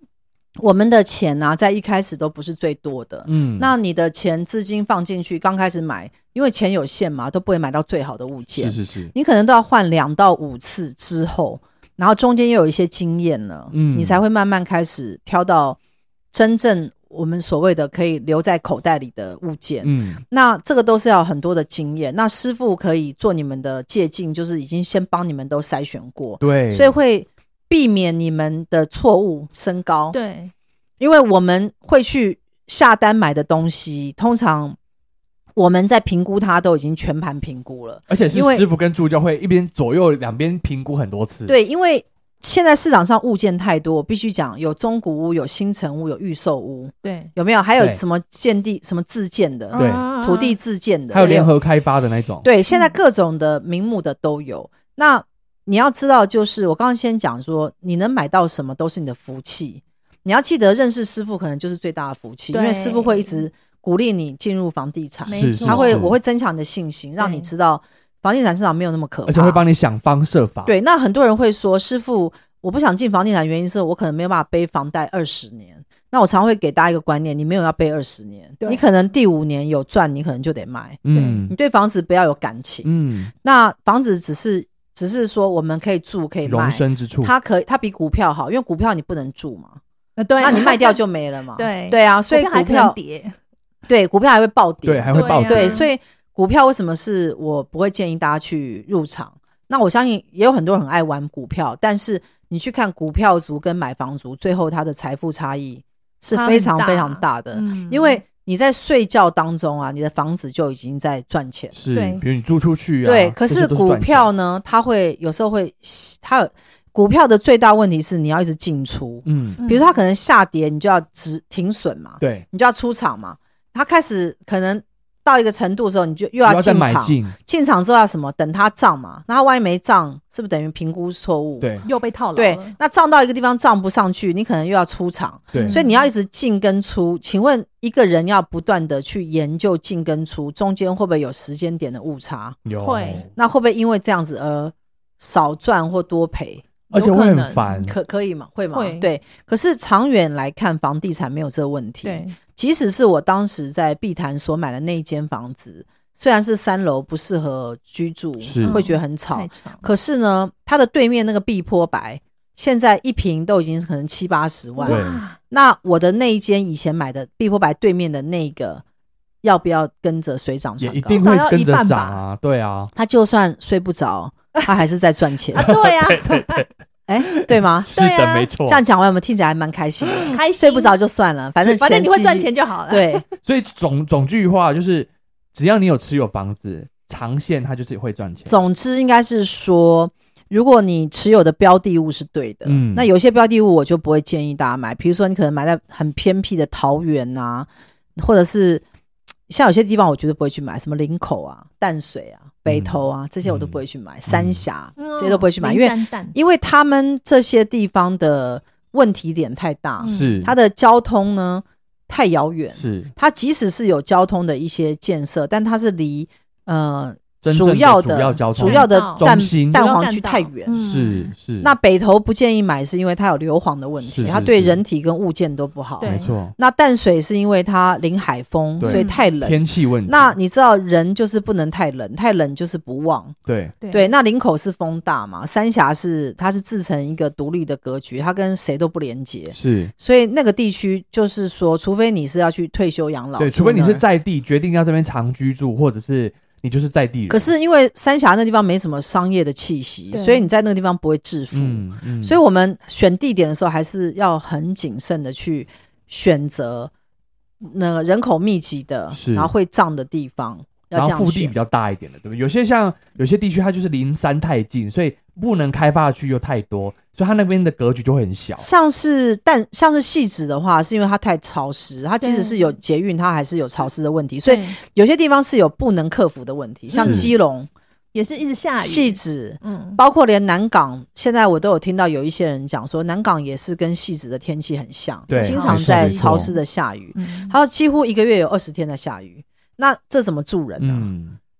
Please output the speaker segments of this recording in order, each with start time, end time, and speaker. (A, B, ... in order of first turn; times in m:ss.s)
0:00.6-0:15.8 A
0:03.2-0:03.7 B
0:08.6-0:09.1 B
0:13.7-0:14.2 B
0:16.3-0:30.2 A
0:19.8-0:20.2 B
0:26.4-0:27.0 B
0:30.1-0:30.5 C
0:31.0-0:34.8 A
0:35.6-0:38.6 A
0:38.1-0:41.5 B
0:41.5-0:51.5 A
0:47.0-0:47.3 C
0:49.7-0:50.6 C
0:49.7-0:50.0 B
0:51.1-0:52.4 B
0:52.4-1:09.6 A
0:52.7-0:53.0 C
1:02.5-1:03.4 C
1:05.2-1:06.0 C
1:05.3-1:06.2 B
1:07.2-1:07.5 C
1:09.3-1:10.7 B
1:10.6-1:22.9 A
1:21.0-1:21.5 B
1:21.1-1:21.4 C
1:22.8-1:23.3 B
1:23.4-1:29.8 A
1:26.4-1:27.3 B
1:30.2-1:31.0 C
1:30.4-1:33.0 A
1:31.5-1:33.4 C
1:33.9-1:51.7 A
1:34.8-1:35.8 B
1:35.1-1:35.9 C
1:46.3-1:48.2 C
1:51.7-1:54.3 B
1:51.9-1:52.2 C
1:53.0-2:11.7 A
1:59.2-1:59.6 B
1:59.6-1:59.9 C
2:02.2-2:02.4 B
2:06.4-2:07.3 B
2:11.6-2:11.8 B
2:11.8-2:12.8 C
2:12.4-2:22.6 A
2:15.5-2:15.8 B
2:15.5-2:16.1 C
2:22.6-2:23.3 B
2:22.8-2:23.2 C
2:23.3-2:48.8 A
2:26.9-2:27.9 B
2:26.9-2:27.9 C
2:28.7-2:29.1 C
2:32.0-2:32.4 C
2:38.4-2:38.8 B
2:38.6-2:39.8 C
2:44.8-2:45.4 C
2:44.8-2:45.2 B
2:49.4-2:51.3 A
2:50.8-2:52.9 B
2:51.1-2:52.2 C
2:52.9-2:55.7 A
2:55.5-2:56.6 C
2:55.5-2:56.7 B
2:57.1-2:57.9 A
2:57.3-2:58.8 B
2:57.9-2:58.5 C
2:58.6-3:03.2 A
3:00.2-3:00.9 C
3:01.6-3:03.3 C
3:03.4-3:08.6 B
3:08.4-3:18.8 A
3:12.6-3:13.1 B
3:19.5-3:40.8 A
3:22.7-3:24.6 B
3:25.0-3:26.3 C
3:30.0-3:30.5 C
3:30.0-3:30.5 B
3:32.7-3:33.1 B
3:37.4-3:39.8 B
3:38.6-3:41.3 C
3:40.8-3:41.7 B
3:41.6-3:53.4 A
3:44.0-3:44.8 B
3:46.0-3:46.3 C
3:46.0-3:46.5 B
3:48.8-3:50.3 B
3:48.8-3:49.2 C
3:53.4-3:53.7 B
3:53.8-3:54.1 C
3:53.9-4:04.0 A
3:59.5-3:59.9 B
4:03.4-4:07.5 B
4:07.3-4:16.9 A
4:10.1-4:10.5 C
4:11.5-4:12.4 B
4:17.6-4:21.5 A
4:19.1-4:19.5 B
4:20.9-4:28.6 B
4:28.6-4:37.7 A
4:32.2-4:32.7 C
4:34.4-4:34.8 C
4:36.9-4:37.3 C
4:36.9-4:37.3 B
4:38.1-4:40.0 C
4:38.8-4:51.1 A
4:45.3-4:46.5 B
4:45.4-4:46.6 C
4:47.1-4:47.5 C
4:50.8-4:51.4 B